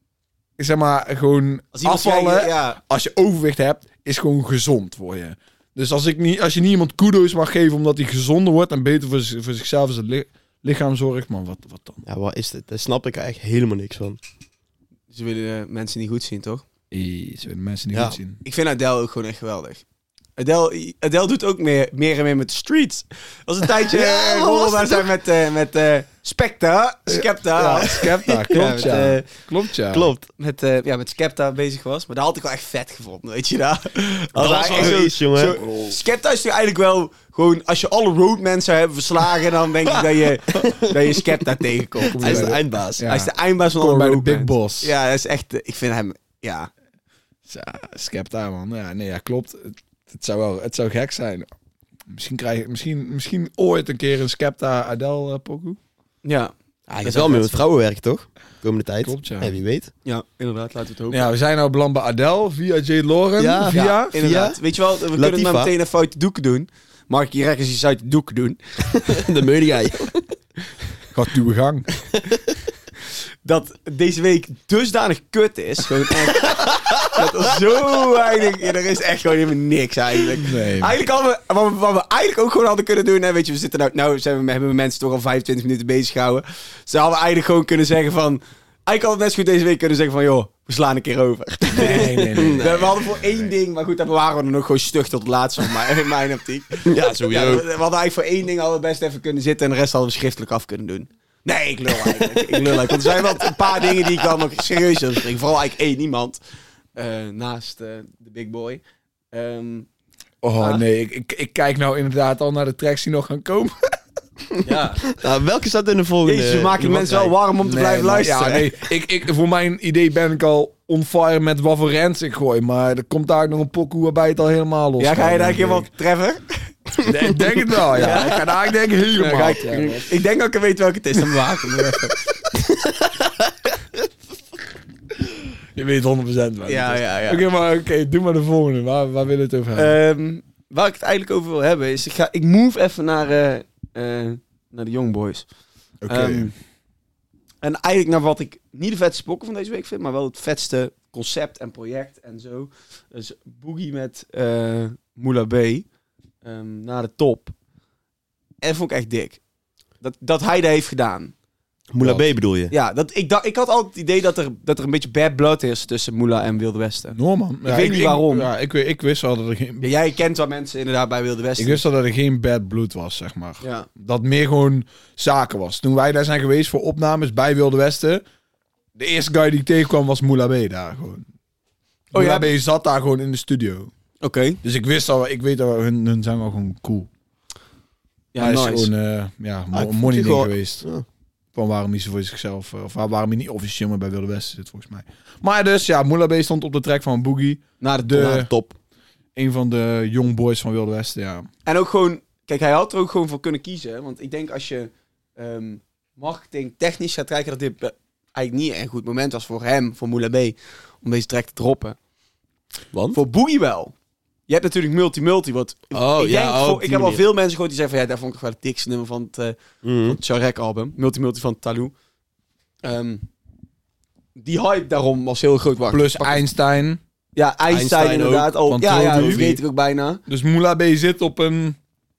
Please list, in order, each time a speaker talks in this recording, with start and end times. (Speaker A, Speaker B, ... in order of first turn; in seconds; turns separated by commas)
Speaker A: 0.6-12.0, Speaker B: 1.7-2.8, Speaker C: 12.1-14.2, Speaker B: 15.1-16.6, Speaker A: 16.9-18.4, Speaker B: 18.4-19.8, Speaker B: 20.4-29.3, Speaker C: 23.8-25.1, Speaker A: 27.1-30.1, Speaker C: 29.9-30.3, Speaker B: 30.4-42.5, Speaker C: 34.4-35.6, Speaker A: 34.7-35.0, Speaker A: 35.6-36.0, Speaker C: 40.5-41.1, Speaker A: 42.1-44.9, Speaker C: 42.2-43.1, Speaker B: 43.1-46.7, Speaker A: 47.5-51.5, Speaker A: 52.1-55.8, Speaker B: 56.2-57.6, Speaker C: 56.9-59.9, Speaker A: 59.0-59.6, Speaker B: 60.0-61.2, Speaker A: 61.1-64.1, Speaker C: 63.4-64.6, Speaker B: 63.7-69.0, Speaker C: 65.1-65.7, Speaker C: 68.9-70.2, Speaker A: 71.1-71.9, Speaker B: 73.5-106.4, Speaker A: 80.4-80.9, Speaker A: 91.7-93.5, Speaker C: 91.9-92.8, Speaker C: 96.9-97.7, Speaker C: 102.0-104.2, Speaker B: 107.0-108.8, Speaker B: 109.3-109.9, Speaker A: 110.4-114.0, Speaker B: 110.6-110.8, Speaker B: 114.6-115.1, Speaker C: 115.1-117.3, Speaker B: 116.2-118.7, Speaker A: 117.6-125.9, Speaker B: 125.0-126.7, Speaker A: 127.0-130.1, Speaker C: 127.0-127.4, Speaker B: 127.9-132.2, Speaker C: 132.7-133.7, Speaker A: 135.8-140.0, Speaker B: 136.7-137.4, Speaker B: 139.8-145.5, Speaker A: 146.0-146.5, Speaker B: 146.1-146.5, Speaker B: 147.6-155.8, Speaker B: 156.4-157.5, Speaker B: 158.6-159.4, Speaker B: 160.0-161.3, Speaker C: 161.9-162.7, Speaker B: 162.7-168.5, Speaker A: 167.1-169.9, Speaker B: 169.8-171.8, Speaker A: 171.6-178.2, Speaker B: 173.6-173.9, Speaker A: 179.0-181.2, Speaker A: 182.1-183.9, Speaker B: 182.1-182.5, Speaker B: 184.2-184.6, Speaker A: 184.6-187.1, Speaker B: 188.3-188.9, Speaker A: 188.4-190.8, Speaker C: 189.7-191.1, Speaker A: 191.5-198.5, Speaker B: 197.8-198.7, Speaker A: 199.3-201.5, Speaker B: 201.7-212.0, Speaker C: 212.9-213.2, Speaker B: 213.1-213.9, Speaker B: 214.5-221.9, Speaker C: 215.9-217.2, Speaker C: 219.8-220.2, Speaker B: 222.8-223.2, Speaker B: 224.4-226.4, Speaker A: 225.9-227.0, Speaker B: 227.4-230.2, Speaker C: 227.7-229.4, Speaker A: 228.7-229.6, Speaker A: 230.3-231.8